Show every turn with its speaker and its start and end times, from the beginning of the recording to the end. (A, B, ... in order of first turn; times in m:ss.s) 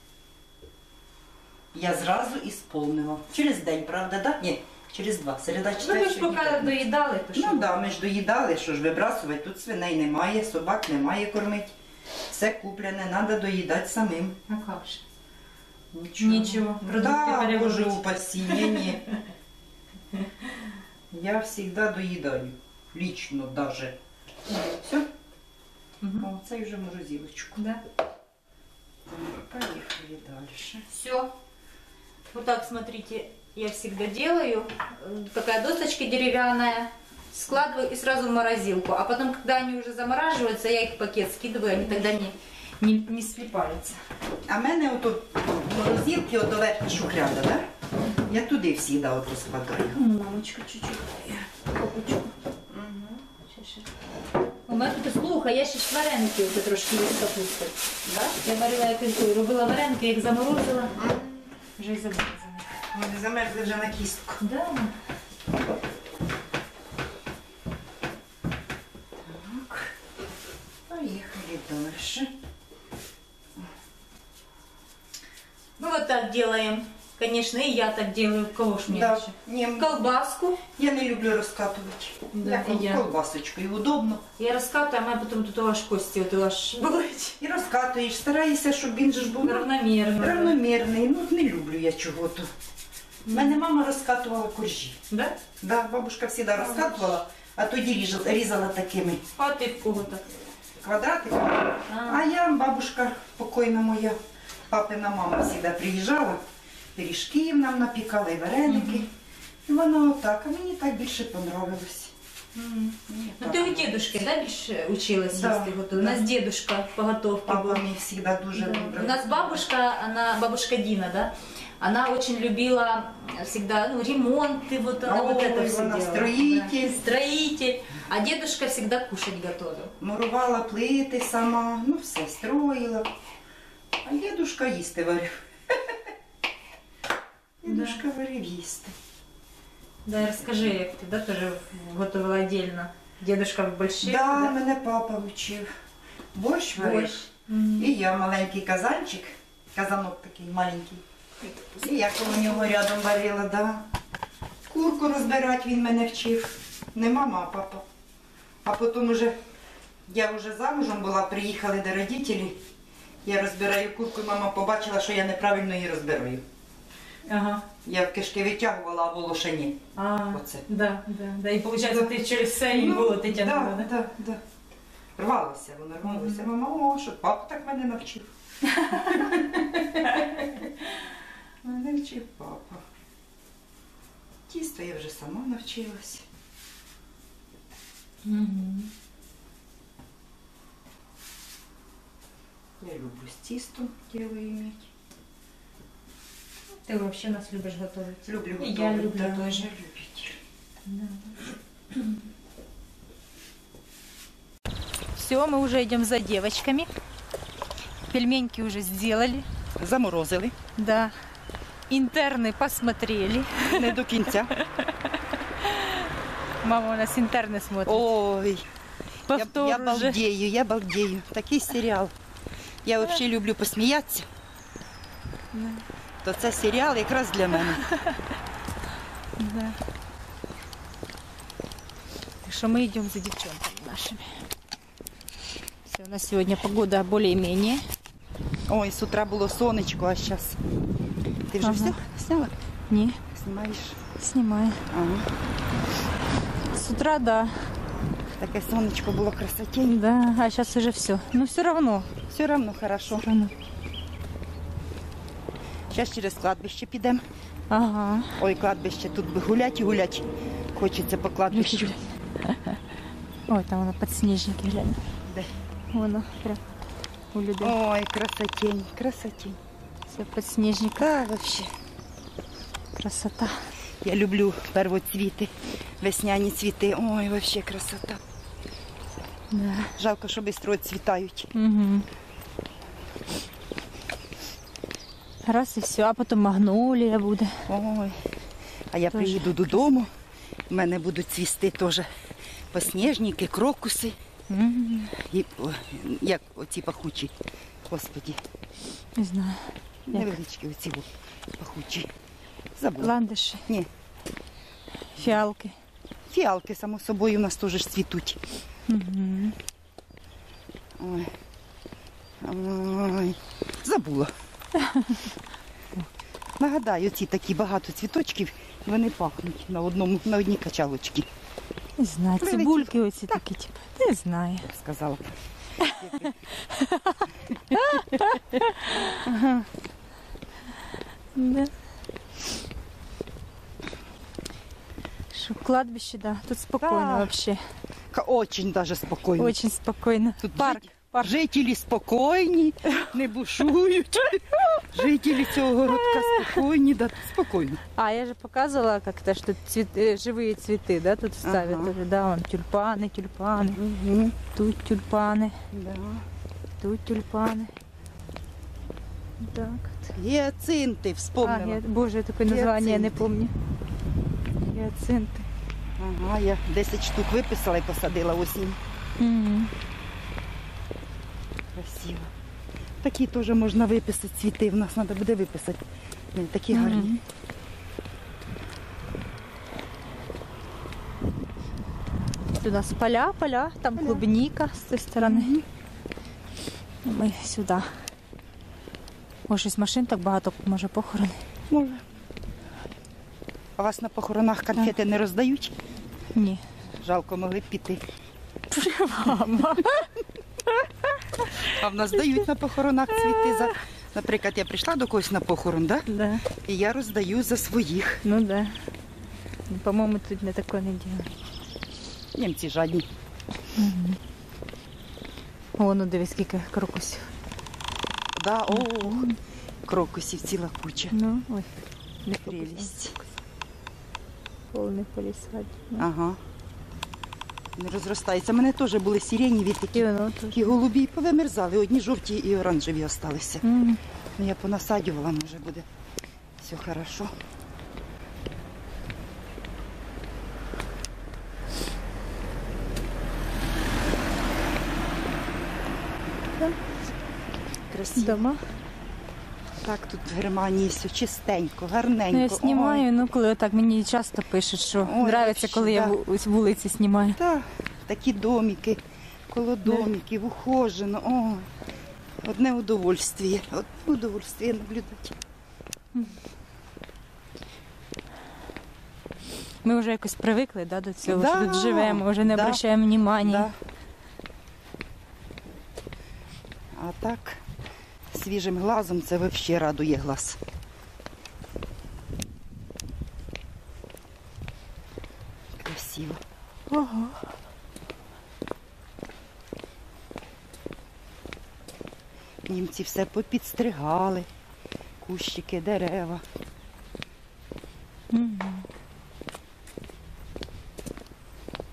0:01.7-0:06.8 A
0:05.8-0:07.8 B
0:07.3-0:11.8 A
0:12.3-0:14.4 A
0:14.5-0:15.0 B
0:15.9-0:19.0 A
0:16.2-0:18.9 B
0:21.1-0:24.0 A
0:24.5-0:24.8 B
0:24.7-0:25.1 A
0:26.0-0:26.3 B
0:26.2-0:27.6 A
0:29.1-0:30.9 A
0:30.9-0:31.3 B
0:32.3-0:44.0 B
0:44.5-0:47.7 A
0:48.3-0:50.0 A
0:49.9-0:52.3 B
0:52.7-0:53.3 A
0:53.5-0:53.9 B
0:54.7-0:57.8 B
0:58.0-0:58.4 A
0:58.4-1:01.0 B
1:01.0-1:01.4 A
1:01.8-1:02.7 B
1:02.9-1:04.4 A
1:04.4-1:04.9 B
1:09.2-1:09.9 A
1:10.9-1:12.3 A
1:15.8-1:20.6 B
1:18.9-1:20.0 A
1:20.7-1:24.2 A
1:22.3-1:23.0 B
1:24.4-1:27.4 B
1:27.4-1:32.5 A
1:29.4-1:30.6 B
1:33.3-1:33.6 B
1:33.3-1:35.0 A
1:35.1-1:35.4 B
1:35.6-1:39.2 A
1:36.6-1:36.9 B
1:39.4-1:40.3 B
1:40.8-1:44.2 A
1:41.9-1:42.2 B
1:44.7-1:46.4 A
1:47.0-1:49.1 A
1:48.7-1:49.0 B
1:49.7-1:52.1 A
1:52.6-1:57.8 B
1:53.1-1:54.0 A
1:55.3-1:56.2 A
1:57.5-1:59.6 A
1:58.6-2:09.9 B
2:05.0-2:07.1 A
2:10.0-2:13.1 A
2:14.0-2:16.1 A
2:17.6-2:19.0 A
2:17.7-2:18.0 B
2:20.1-2:24.5 B
2:20.3-2:20.7 A
2:24.0-2:25.7 A
2:26.3-2:27.2 A
2:26.8-2:27.9 B
2:27.8-2:31.0 A
2:31.8-2:33.9 A
2:34.7-2:37.8 A
2:38.6-2:39.4 A
2:40.1-2:42.6 A
2:43.2-2:46.4 A
2:47.3-2:47.7 B
2:47.8-2:49.8 A
2:50.0-2:53.9 B
2:50.3-2:50.6 A
2:51.9-2:52.1 A
2:52.7-2:54.4 A
2:55.2-2:58.3 A
2:56.0-2:56.4 B
2:58.7-3:00.7 B
2:58.9-2:59.5 A
3:01.6-3:02.8 A
3:04.5-3:06.3 A
3:08.2-3:08.9 B
3:12.8-3:14.9 A
3:16.9-3:19.7 B
3:18.2-3:20.4 A
3:20.9-3:21.4 B
3:25.2-3:26.9 B
3:28.1-3:29.5 B
3:29.8-3:30.6 A
3:30.8-3:31.1 B
3:31.9-3:34.0 B
3:33.7-3:34.5 A
3:34.6-3:34.9 B
3:35.6-3:36.1 B
3:36.6-3:38.1 B
3:37.8-3:38.7 A
3:39.3-3:40.2 B
3:39.3-3:42.1 A
3:42.8-3:44.3 A
3:45.5-3:45.8 B
3:46.2-3:47.8 A
3:47.9-3:48.2 B
3:49.4-3:49.8 B
3:52.4-3:54.3 B
3:55.9-3:57.8 B
3:58.7-4:00.6 A
4:01.5-4:02.5 A
4:01.6-4:02.0 B
4:02.9-4:03.2 B
4:03.3-4:04.0 A
4:04.2-4:04.8 B
4:04.9-4:05.3 A
4:06.7-4:07.6 B
4:08.4-4:10.0 A
4:09.8-4:12.1 B
4:12.3-4:13.3 A
4:13.1-4:13.5 B
4:15.9-4:17.2 A
4:17.7-4:18.3 B
4:18.4-4:22.0 A
4:21.5-4:22.8 B
4:23.5-4:25.0 B
4:25.9-4:26.6 B
4:27.3-4:27.8 B
4:27.6-4:29.6 A
4:30.1-4:31.1 B
4:31.0-4:31.7 A
4:33.0-4:33.6 B
4:34.0-4:38.2 A
4:39.5-4:39.9 B
4:40.0-4:41.5 A
4:41.5-4:42.1 B
4:45.5-4:47.6 B
4:47.7-4:48.3 A
4:48.9-4:50.1 A
4:49.1-4:49.7 B
4:50.7-4:52.1 A
4:52.7-4:54.2 A
4:54.5-4:55.1 B
4:55.1-4:57.3 A
4:57.9-4:58.4 A
4:59.2-5:00.4 B
5:00.1-5:02.1 A
5:02.8-5:03.1 A
5:03.0-5:03.7 B
5:05.2-5:05.8 B
5:06.3-5:08.4 A
5:08.9-5:09.6 B
5:11.0-5:11.3 A
5:12.4-5:14.3 A
5:14.8-5:15.3 B
5:16.6-5:21.3 A
5:22.0-5:24.7 B
5:22.4-5:23.4 A
5:24.7-5:26.4 A
5:25.8-5:29.2 B
5:27.7-5:28.2 A
5:29.2-5:29.7 A
5:31.4-5:31.7 B
5:35.3-5:37.6 B
5:36.8-5:37.3 A
5:38.1-5:39.6 A
5:39.4-5:41.3 B
5:40.4-5:47.8 A
5:45.9-5:46.6 B
5:48.0-5:53.8 B
5:51.4-5:52.0 A
5:53.7-5:54.4 A
5:54.5-5:55.6 B
5:55.7-5:56.3 A
5:56.8-5:57.7 B
5:59.4-6:00.1 B
6:00.2-6:01.8 A
6:01.4-6:03.5 B
6:02.5-6:03.2 A
6:04.7-6:05.5 B
6:06.0-6:08.8 A
6:09.2-6:09.7 B
6:11.8-6:12.3 A
6:13.0-6:15.8 A
6:16.3-6:17.1 A
6:16.7-6:17.2 B
6:22.6-6:25.5 B
6:24.0-6:24.2 A
6:25.2-6:25.7 A
6:27.0-6:27.9 B
6:29.5-6:31.4 B
6:31.7-6:32.0 A
6:33.8-6:35.7 A
6:36.4-6:36.6 B
6:37.0-6:38.0 A
6:38.7-6:40.1 B
6:41.6-6:48.2 A
6:46.1-6:46.4 B
6:48.2-6:48.8 B
6:49.7-6:51.3 B
6:52.4-6:53.1 A
6:53.8-6:54.2 B
6:55.8-6:57.3 B
6:58.3-6:59.3 A
6:58.7-6:59.4 B
6:59.9-7:01.2 A
7:01.1-7:01.7 B
7:02.2-7:03.3 B
7:02.4-7:03.2 A
7:04.7-7:06.0 B
7:06.0-7:06.4 A
7:07.8-7:13.6 A
7:09.9-7:10.7 B
7:13.6-7:14.0 B
7:14.4-7:15.9 A
7:16.6-7:17.3 A
7:27.9-7:28.5 A
7:28.2-7:28.6 B
7:29.8-7:33.0 A
7:32.3-7:37.4 B
7:35.0-7:36.2 A
7:37.4-7:41.7 A
7:42.4-7:45.4 A
7:49.8-7:53.7 B
7:51.2-7:53.8 A
7:56.9-7:57.6 A
7:58.3-8:00.6 A
8:05.8-8:06.4 A
8:06.9-8:07.4 B
8:12.7-8:14.5 A
8:15.2-8:16.4 A
8:18.3-8:18.9 B